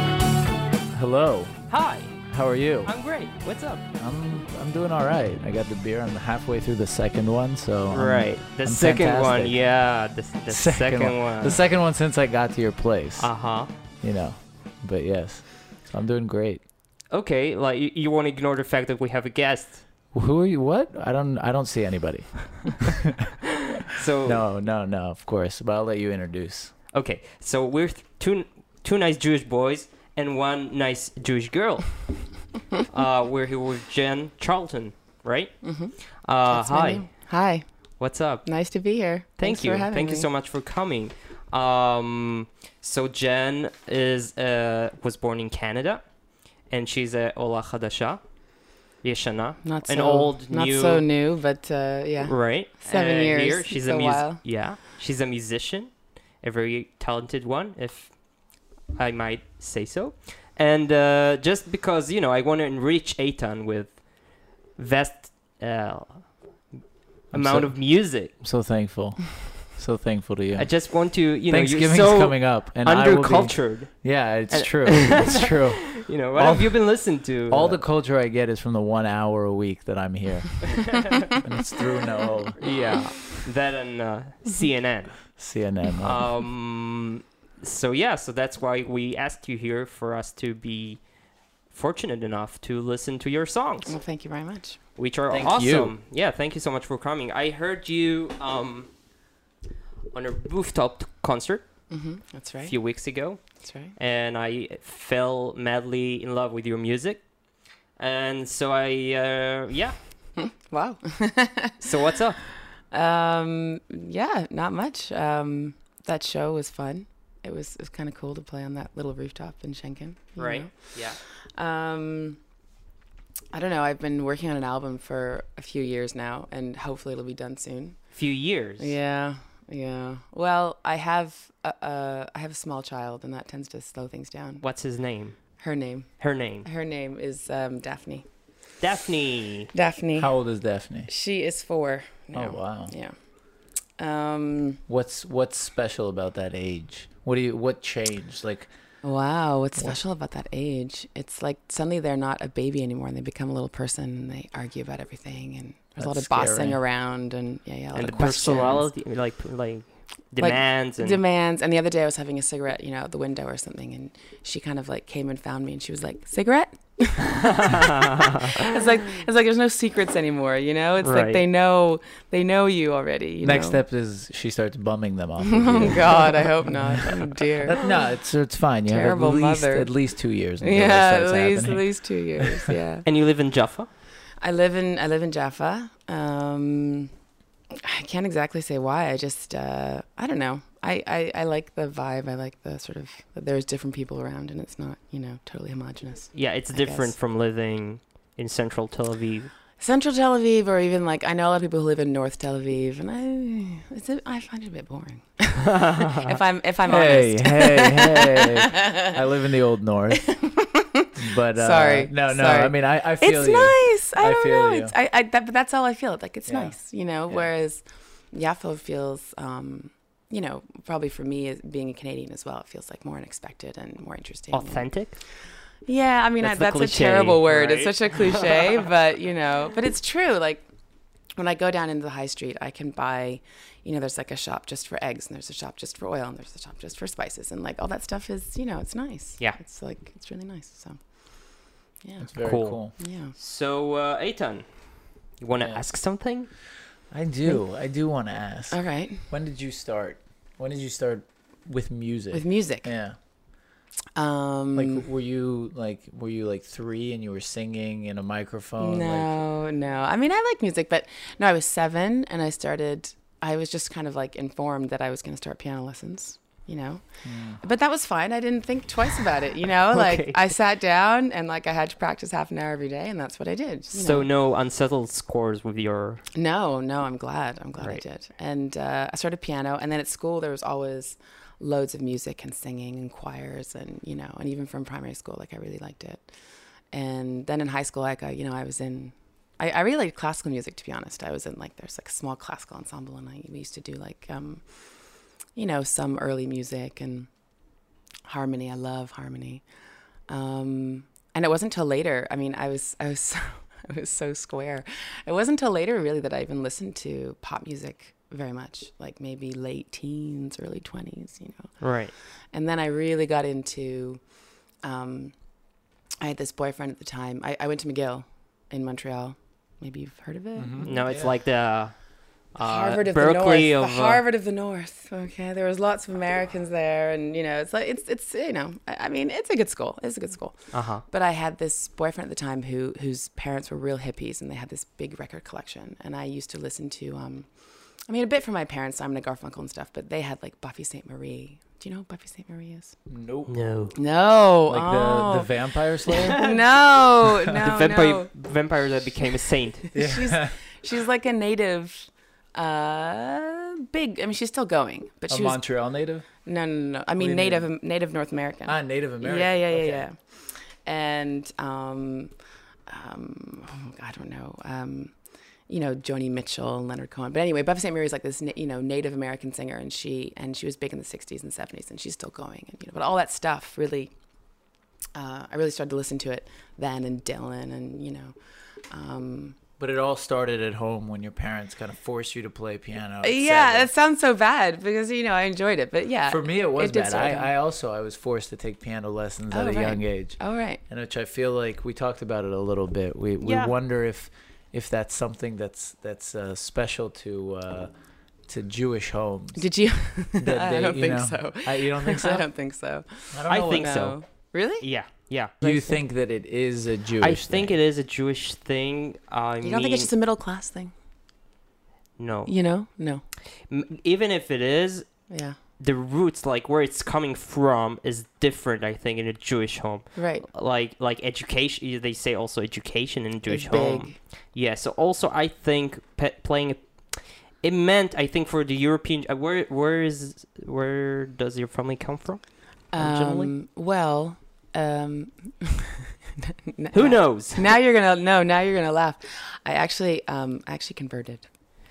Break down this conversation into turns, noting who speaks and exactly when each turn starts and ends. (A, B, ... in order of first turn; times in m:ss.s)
0:00.9-0:01.6 A
0:01.7-0:02.2 B
0:02.2-0:02.9 A
0:02.8-0:03.8 B
0:04.0-0:09.6 A
0:07.9-0:11.6 B
0:10.5-0:13.3 A
0:13.2-0:13.7 B
0:14.0-0:16.6 A
0:17.1-0:19.8 B
0:20.1-0:23.3 A
0:23.9-0:24.4 B
0:24.2-0:26.7 A
0:26.9-0:37.1 B
0:35.6-0:35.9 C
0:36.5-0:37.7 C
0:38.0-0:38.5 B
0:38.4-0:40.3 C
0:39.4-0:46.0 B
0:46.7-0:48.3 B
0:49.0-0:51.0 B
0:49.6-0:54.4 C
0:52.3-0:58.2 B
0:59.0-1:06.4 B
1:07.3-1:08.3 B
1:07.3-1:10.7 A
1:10.6-1:17.8 B
1:11.5-1:16.8 A
1:17.5-1:23.0 A
1:20.7-1:21.3 B
1:22.6-1:25.4 B
1:25.4-1:26.3 A
1:26.0-1:31.0 B
1:31.7-1:34.0 B
1:33.9-1:34.8 C
1:35.0-1:38.9 B
1:35.3-1:35.9 A
1:40.1-1:41.7 B
1:41.9-1:42.8 C
1:42.6-1:47.2 B
1:43.6-1:43.9 C
1:48.0-1:50.0 B
1:50.4-1:51.9 C
1:51.8-1:52.4 B
1:52.9-2:00.9 C
2:00.4-2:01.2 B
2:01.6-2:02.4 C
2:03.5-2:08.0 C
2:08.1-2:09.0 B
2:08.8-2:14.6 C
2:14.6-2:15.4 B
2:15.6-2:16.1 C
2:16.2-2:16.7 B
2:16.6-2:18.3 C
2:18.8-2:19.7 B
2:19.7-2:20.3 C
2:20.2-2:21.1 A
2:21.1-2:23.2 C
2:22.3-2:22.9 A
2:24.0-2:24.8 C
2:24.9-2:28.7 A
2:29.0-2:38.9 C
2:36.0-2:36.8 A
2:38.0-2:41.2 B
2:38.1-2:38.7 A
2:40.4-2:53.8 C
2:47.3-2:48.6 B
2:51.0-2:51.4 B
2:53.4-3:01.9 A
2:55.4-2:57.8 C
2:58.9-2:59.9 C
3:00.6-3:03.1 C
3:03.0-3:03.9 B
3:04.4-3:07.1 C
3:07.7-3:17.1 C
3:16.3-3:19.5 B
3:19.8-3:29.2 C
3:25.6-3:26.4 B
3:26.9-3:30.3 A
3:30.1-3:44.9 C
3:31.2-3:34.9 A
3:36.5-3:36.8 A
3:44.5-3:45.2 B
3:45.8-3:50.7 C
3:46.4-3:48.8 B
3:51.4-4:01.0 C
4:02.0-4:02.3 C
4:02.2-4:02.9 A
4:02.4-4:06.5 B
4:03.0-4:03.4 C
4:05.6-4:05.8 A
4:07.1-4:13.2 A
4:08.7-4:09.3 C
4:12.3-4:12.9 C
4:14.2-4:15.1 C
4:14.8-4:19.4 A
4:18.8-4:27.0 C
4:27.2-4:27.6 A
4:27.6-4:34.3 C
4:29.9-4:30.4 B
4:33.9-4:36.2 B
4:36.3-4:46.3 C
4:46.9-4:54.6 C
4:55.6-4:57.3 C
4:58.3-4:59.6 C
5:00.3-5:11.8 C
5:11.8-5:12.1 B
5:12.5-5:14.2 C
5:14.8-5:15.4 C
5:16.2-5:21.1 C
5:20.6-5:21.3 A
5:20.8-5:21.9 B
5:22.5-5:24.2 B
5:22.6-5:37.5 C
5:30.7-5:31.0 B
5:38.1-5:43.0 C
5:43.1-5:43.5 A
5:43.5-5:43.9 B
5:44.0-5:48.3 C
5:44.7-5:46.5 A
5:47.5-5:49.9 B
5:49.9-5:55.6 C
5:49.9-5:50.6 A
5:55.3-5:56.3 A
5:56.4-6:02.3 C
5:57.2-5:57.7 A
5:58.7-6:00.0 A
6:02.9-6:05.2 C
6:05.7-6:14.1 C
6:15.2-6:18.4 C
6:18.9-6:19.6 C
6:19.8-6:23.9 A
6:23.2-6:27.5 C
6:26.3-6:37.9 A
6:29.5-6:30.8 C
6:33.4-6:33.7 B
6:38.5-6:39.6 A
6:39.6-6:44.9 C
6:40.4-6:42.5 A
6:43.3-6:43.9 A
6:43.5-6:44.2 B
6:44.8-6:45.5 B
6:45.6-6:47.8 A
6:45.6-6:46.0 C
6:47.2-6:50.1 B
6:49.6-6:50.9 C
6:52.2-6:52.5 B
6:52.5-6:53.2 C
6:53.7-7:13.5 B
6:55.3-6:55.6 C
7:00.2-7:00.5 C
7:03.5-7:04.2 C
7:12.9-7:21.5 C
7:16.9-7:17.7 B